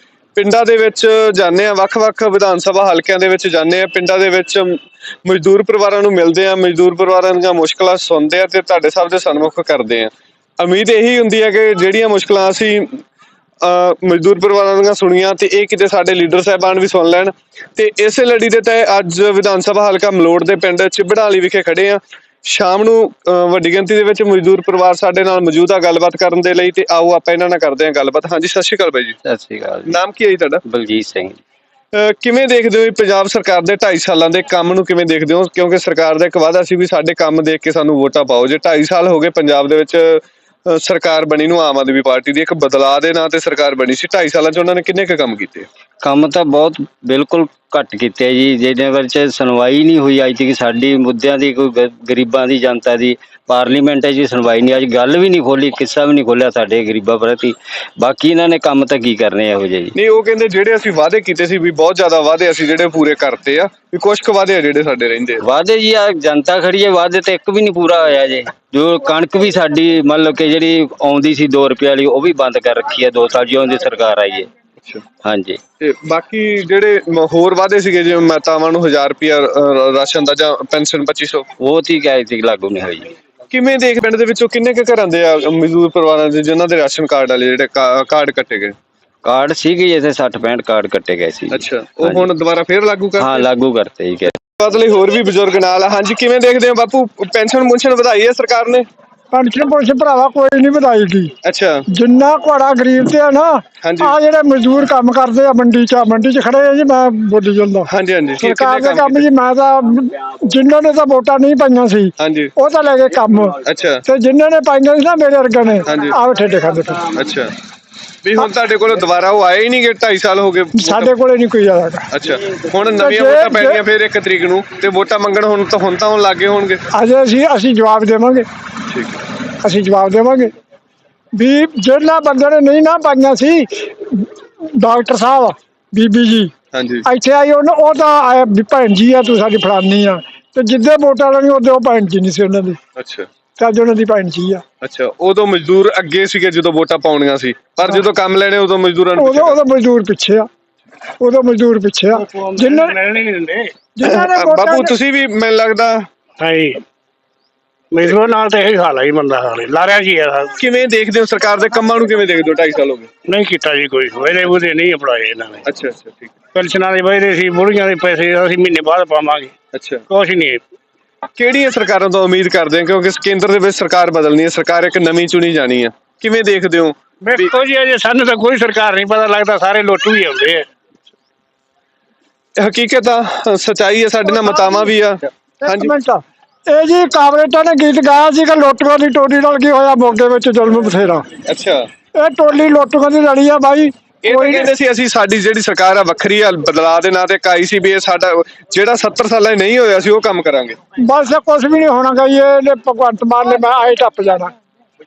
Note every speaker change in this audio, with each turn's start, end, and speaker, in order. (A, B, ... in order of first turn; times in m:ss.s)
0:00.4-0:12.9 A
0:13.6-0:29.2 A
0:29.2-0:30.0 B
0:29.9-0:30.6 A
0:30.7-0:31.4 B
0:31.9-0:45.7 A
0:46.0-1:00.0 B
1:00.0-1:05.4 A
1:05.4-1:14.5 B
1:15.2-1:15.6 B
1:15.8-1:21.5 A
1:21.6-1:23.1 B
1:23.5-1:28.8 A
1:29.2-1:32.3 B
1:31.5-1:33.5 A
1:33.2-1:34.4 B
1:34.6-1:38.9 A
1:39.3-1:41.3 C
1:41.4-1:41.8 A
1:41.9-1:57.1 C
1:43.8-1:44.2 A
1:47.9-1:49.3 A
1:52.2-1:52.5 A
1:53.6-1:54.0 A
1:55.9-1:56.2 A
1:57.1-1:57.5 A
1:58.2-2:01.1 A
2:00.7-2:02.1 C
2:02.1-2:06.8 A
2:03.0-2:03.8 C
2:06.9-2:08.5 C
2:08.9-2:09.1 A
2:09.6-2:10.5 C
2:11.3-2:16.5 C
2:16.7-2:17.1 A
2:17.0-2:22.8 C
2:23.0-2:23.3 A
2:23.6-2:24.6 C
2:24.8-2:29.6 A
2:29.2-2:30.5 C
2:31.2-2:33.0 C
2:32.3-2:33.8 D
2:33.9-2:34.9 C
2:34.0-2:36.1 A
2:36.4-2:36.8 D
2:37.9-2:40.5 D
2:40.6-2:43.1 A
2:43.3-2:45.6 D
2:45.6-2:46.3 A
2:46.5-2:49.5 D
2:49.7-2:50.0 A
2:50.1-2:50.6 D
2:51.4-2:57.5 A
2:57.2-3:00.7 D
3:02.6-3:05.9 A
3:04.5-3:04.8 C
3:05.6-3:11.2 C
3:11.4-3:11.8 A
3:12.2-3:14.7 C
3:14.2-3:20.8 A
3:21.0-3:24.5 C